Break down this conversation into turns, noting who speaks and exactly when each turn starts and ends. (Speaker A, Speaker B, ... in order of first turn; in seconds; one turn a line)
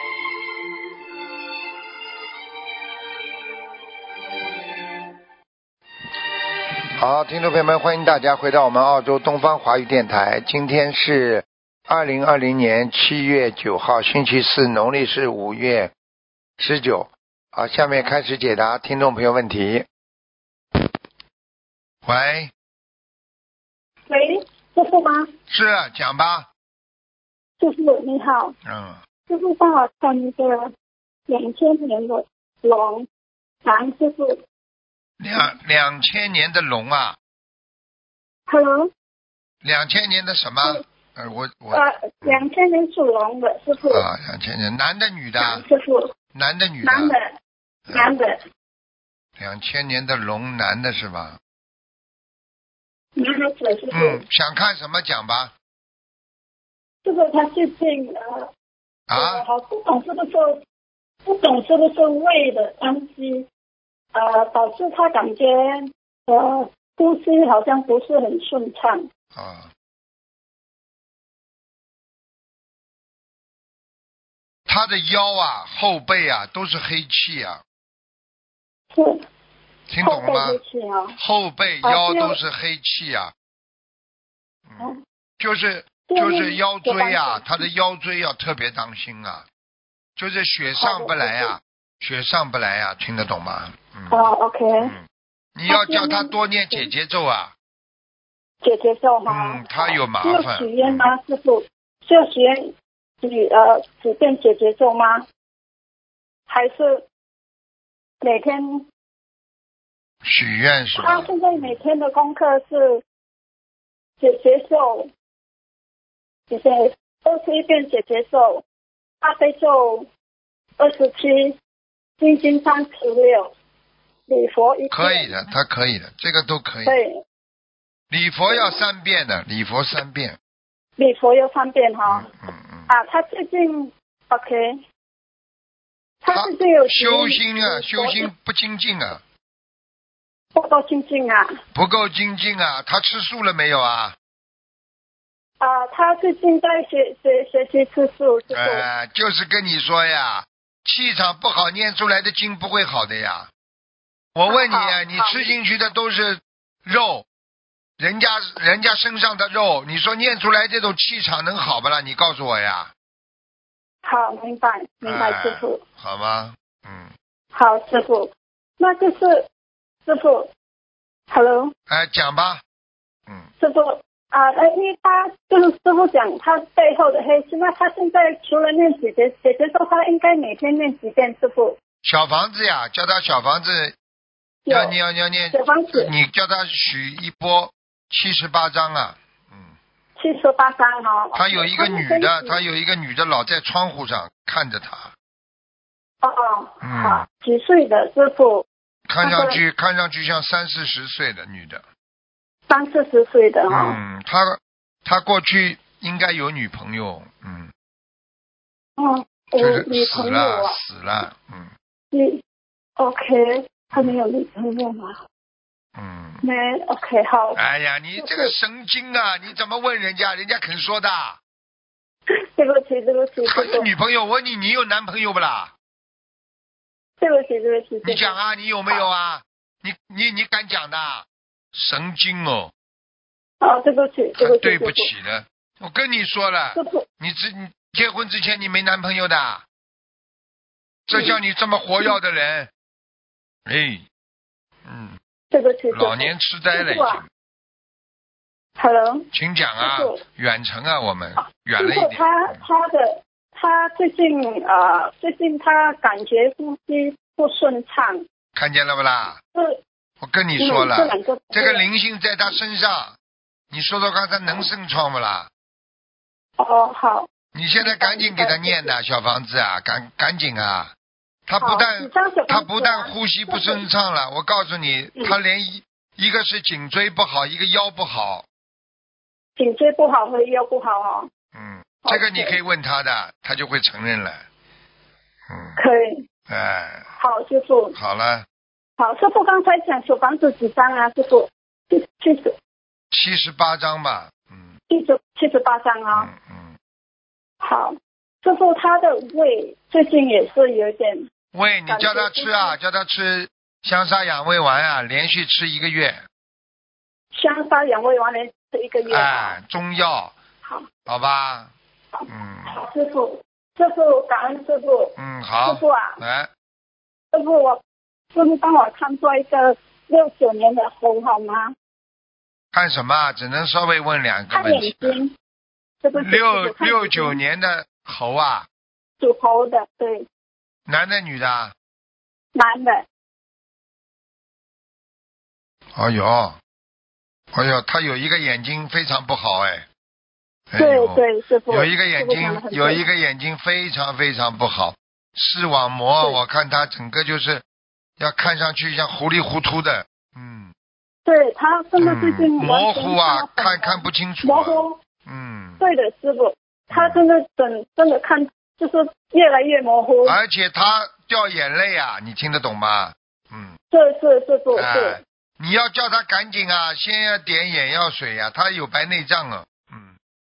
Speaker A: 7.0-15.9
Speaker A: 16.6-19.9
Speaker A: 22.0-22.5
Speaker B: 24.1-25.3
Speaker A: 25.5-26.5
Speaker B: 27.6-28.5
Speaker A: 28.6-29.0
Speaker B: 29.3-30.7
Speaker B: 31.3-33.0
Speaker B: 33.6-34.4
Speaker A: 35.2-37.2
Speaker B: 38.5-38.9
Speaker A: 39.6-42.5
Speaker B: 41.7-44.0
Speaker A: 43.9-45.6
Speaker B: 45.4-46.1
Speaker A: 46.3-47.1
Speaker B: 46.8-47.3
Speaker B: 47.9-48.4
Speaker A: 49.4-51.4
Speaker B: 53.2-54.2
Speaker A: 53.9-55.5
Speaker B: 57.0-58.5
Speaker A: 59.1-59.4
Speaker B: 59.1-60.5
Speaker B: 61.2-63.5
Speaker B: 64.1-69.0
Speaker A: 69.3-69.7
Speaker A: 74.7-77.6
Speaker B: 78.9-79.2
Speaker A: 79.9-80.6
Speaker B: 80.0-81.2
Speaker A: 81.2-83.3
Speaker B: 81.8-82.4
Speaker A: 84.7-89.5
Speaker B: 86.1-87.6
Speaker A: 90.2-94.3
Speaker B: 90.8-91.5
Speaker B: 94.1-95.0
Speaker A: 95.5-97.5
Speaker B: 95.7-96.9
Speaker B: 98.6-105.2
Speaker A: 99.3-101.1
Speaker B: 106.5-107.0
Speaker B: 108.2-108.8
Speaker A: 110.2-111.7
Speaker B: 111.0-113.0
Speaker B: 114.2-115.1
Speaker B: 116.5-118.6
Speaker B: 119.2-120.1
Speaker B: 120.8-121.5
Speaker B: 122.2-123.5
Speaker B: 124.3-125.3
Speaker A: 124.9-127.0
Speaker B: 126.8-127.2
Speaker A: 128.1-130.4
Speaker B: 128.5-128.8
Speaker B: 131.0-132.3
Speaker A: 132.1-132.9
Speaker B: 132.9-134.8
Speaker B: 136.2-138.3
Speaker A: 136.3-139.2
Speaker B: 140.5-141.5
Speaker A: 141.7-144.2
Speaker B: 145.6-148.8
Speaker A: 148.5-153.5
Speaker A: 154.3-157.2
Speaker B: 154.5-155.4
Speaker A: 158.0-162.9
Speaker B: 164.0-165.8
Speaker A: 165.0-167.1
Speaker B: 167.5-169.5
Speaker B: 170.1-170.5
Speaker B: 171.3-171.7
Speaker A: 171.9-172.6
Speaker B: 173.6-181.8
Speaker A: 182.0-183.9
Speaker B: 184.7-184.9
Speaker A: 184.7-189.7
Speaker B: 185.5-186.1
Speaker B: 190.2-192.6
Speaker A: 191.3-195.1
Speaker B: 196.2-198.7
Speaker A: 196.8-197.2
Speaker A: 199.1-201.8
Speaker B: 199.2-199.6
Speaker B: 202.7-204.0
Speaker A: 203.7-207.7
Speaker B: 209.0-210.8
Speaker A: 209.6-211.7
Speaker B: 212.1-212.4
Speaker B: 213.0-215.2
Speaker A: 215.9-216.4
Speaker B: 216.4-217.6
Speaker A: 217.5-221.4
Speaker B: 218.2-218.5
Speaker B: 222.6-223.9
Speaker A: 223.4-225.7
Speaker B: 227.2-228.3
Speaker A: 228.0-232.7
Speaker B: 233.6-235.1
Speaker A: 234.4-239.6
Speaker B: 236.7-237.0
Speaker A: 241.1-242.7
Speaker B: 241.1-241.4
Speaker A: 243.7-244.0
Speaker A: 244.8-245.2
Speaker B: 245.5-247.2
Speaker A: 245.9-247.2
Speaker B: 248.8-249.3
Speaker A: 249.3-252.6
Speaker B: 249.8-250.2
Speaker B: 251.4-258.2
Speaker A: 258.5-259.4
Speaker B: 259.5-259.8
Speaker A: 260.2-263.2
Speaker B: 260.6-261.8
Speaker A: 263.7-265.5
Speaker B: 266.6-267.3
Speaker A: 267.5-270.9
Speaker B: 267.8-268.9
Speaker A: 271.5-278.4
Speaker B: 271.6-273.8
Speaker B: 279.6-281.3
Speaker A: 281.5-284.4
Speaker B: 282.0-282.5
Speaker A: 285.5-285.8
Speaker B: 285.8-286.2
Speaker A: 286.5-287.1
Speaker B: 287.2-287.9
Speaker A: 287.9-288.4
Speaker B: 289.0-292.5
Speaker A: 293.1-294.8
Speaker B: 294.9-296.3
Speaker A: 296.1-296.8
Speaker B: 297.6-301.2
Speaker A: 301.5-306.2
Speaker B: 301.9-302.7
Speaker B: 307.3-309.6
Speaker A: 309.1-310.3
Speaker B: 310.6-310.9
Speaker A: 311.1-311.7
Speaker B: 312.2-315.1
Speaker A: 312.3-312.8
Speaker A: 315.2-316.5
Speaker B: 315.6-316.2
Speaker B: 317.3-317.8
Speaker B: 318.3-321.7
Speaker A: 322.7-325.2
Speaker B: 324.5-325.3
Speaker B: 326.0-327.4
Speaker A: 326.1-328.7
Speaker B: 329.2-330.3
Speaker A: 330.9-331.7
Speaker B: 332.5-333.0
Speaker A: 335.9-336.6
Speaker A: 337.5-339.9
Speaker A: 340.7-347.6
Speaker B: 340.8-343.0
Speaker A: 348.2-350.7
Speaker B: 351.2-355.0
Speaker A: 352.0-355.8
Speaker B: 355.8-360.4
Speaker A: 356.9-357.2
Speaker A: 360.2-363.7
Speaker B: 363.9-365.2
Speaker A: 364.7-370.1